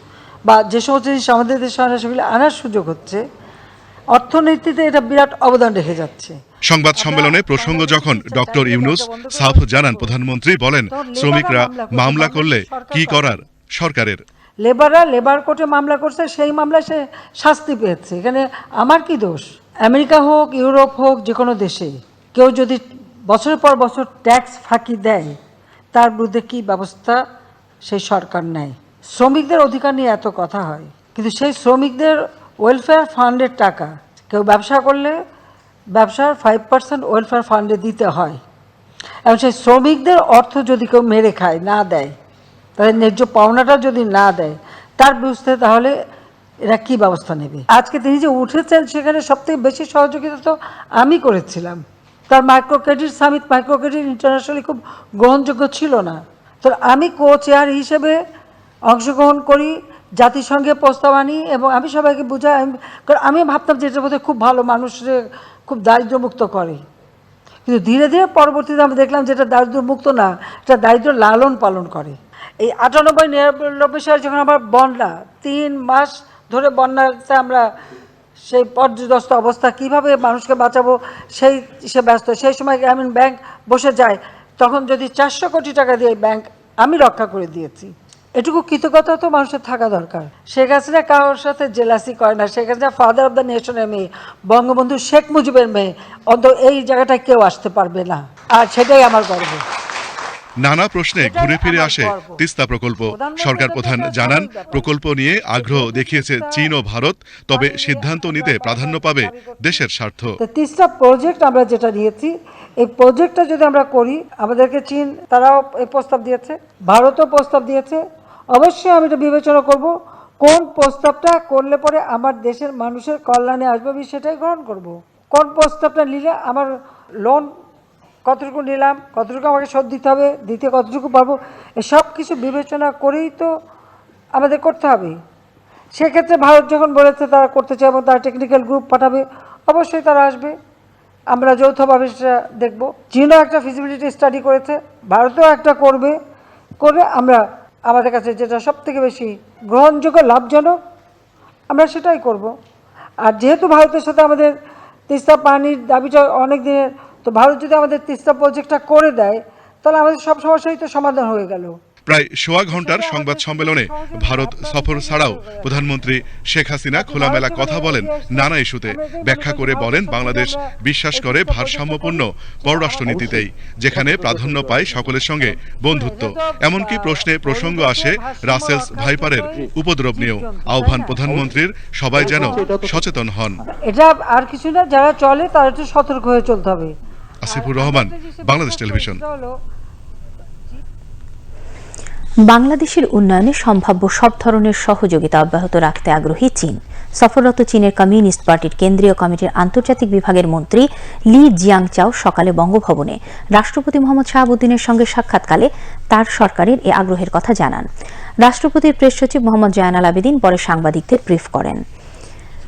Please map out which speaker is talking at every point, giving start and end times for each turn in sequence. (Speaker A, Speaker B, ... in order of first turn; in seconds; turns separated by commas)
Speaker A: 0.5-3.2, Speaker A: 4.1-6.4, Speaker B: 6.7-14.2, Speaker A: 7.0-10.1, Speaker A: 10.9-13.4, Speaker A: 14.6-25.4, Speaker A: 25.9-27.2, Speaker A: 27.9-35.1, Speaker A: 35.9-38.4, Speaker A: 39.3-42.1, Speaker A: 42.8-46.0, Speaker A: 46.7-58.2, Speaker A: 58.9-66.8, Speaker A: 67.7-77.7, Speaker A: 78.5-99.6, Speaker B: 100.6-110.4, Speaker A: 101.2-102.4, Speaker A: 103.1-105.0, Speaker A: 105.6-106.7, Speaker A: 107.5-109.7, Speaker A: 110.4-126.7, Speaker A: 127.2-127.5, Speaker A: 128.2-133.5, Speaker A: 134.3-135.2, Speaker A: 135.9-140.6, Speaker A: 141.3-146.2, Speaker A: 146.8-150.8, Speaker A: 151.7-152.5, Speaker A: 153.2-154.5, Speaker A: 155.1-161.8, Speaker B: 162.1-183.6, Speaker A: 162.7-165.7, Speaker A: 167.0-173.3, Speaker A: 175.9-181.3, Speaker A: 182.3-182.8, Speaker A: 183.8-186.9, Speaker B: 187.4-189.2, Speaker A: 187.5-189.6, Speaker C: 192.5-207.9, Speaker C: 208.4-211.8